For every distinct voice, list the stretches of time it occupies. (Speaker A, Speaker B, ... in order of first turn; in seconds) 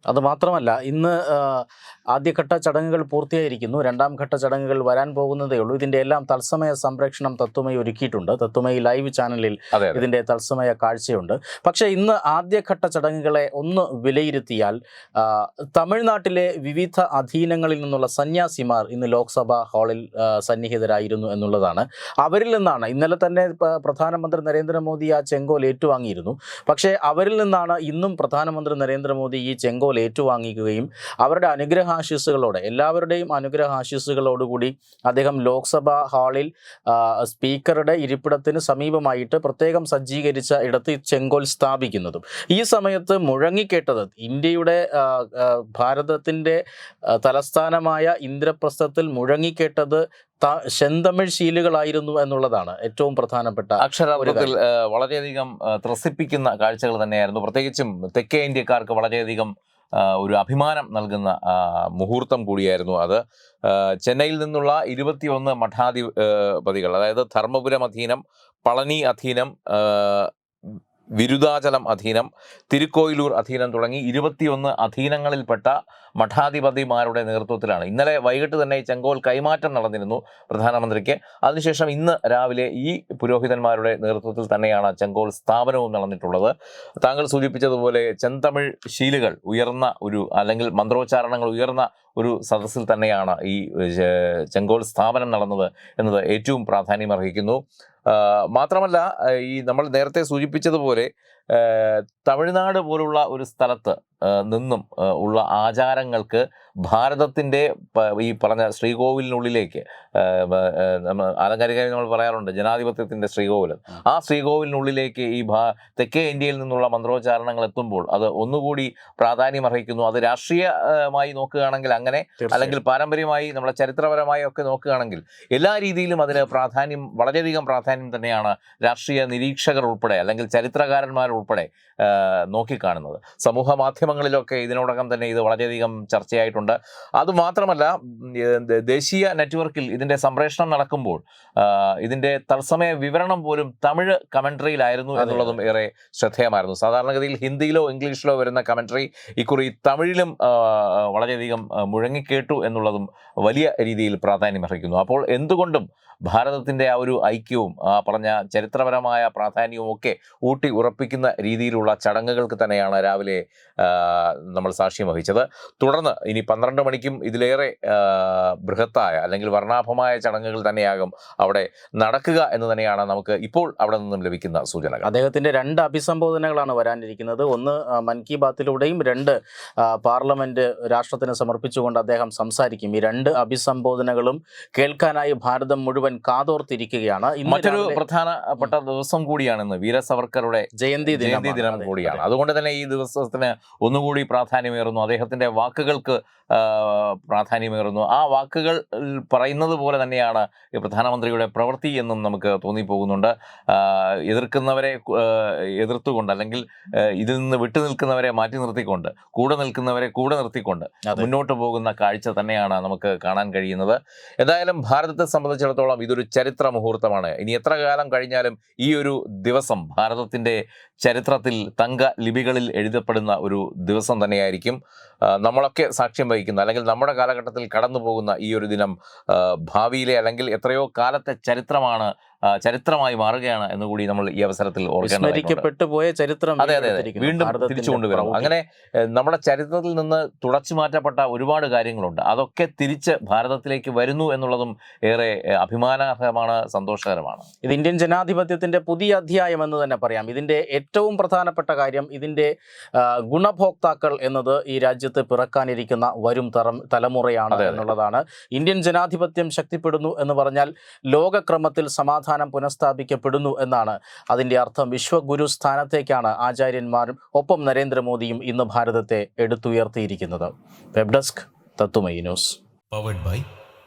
Speaker A: 0.1-46.6, 47.2-54.5, 122.4-122.8, 145.2-145.6, 175.0-188.0, 190.8-192.2, 235.0-238.5, 247.6-272.6
Speaker B: 9.7-10.1, 53.8-70.3, 71.2-175.1, 187.4-224.8, 225.3-235.7, 236.6-247.5, 257.5-257.9, 272.9-273.4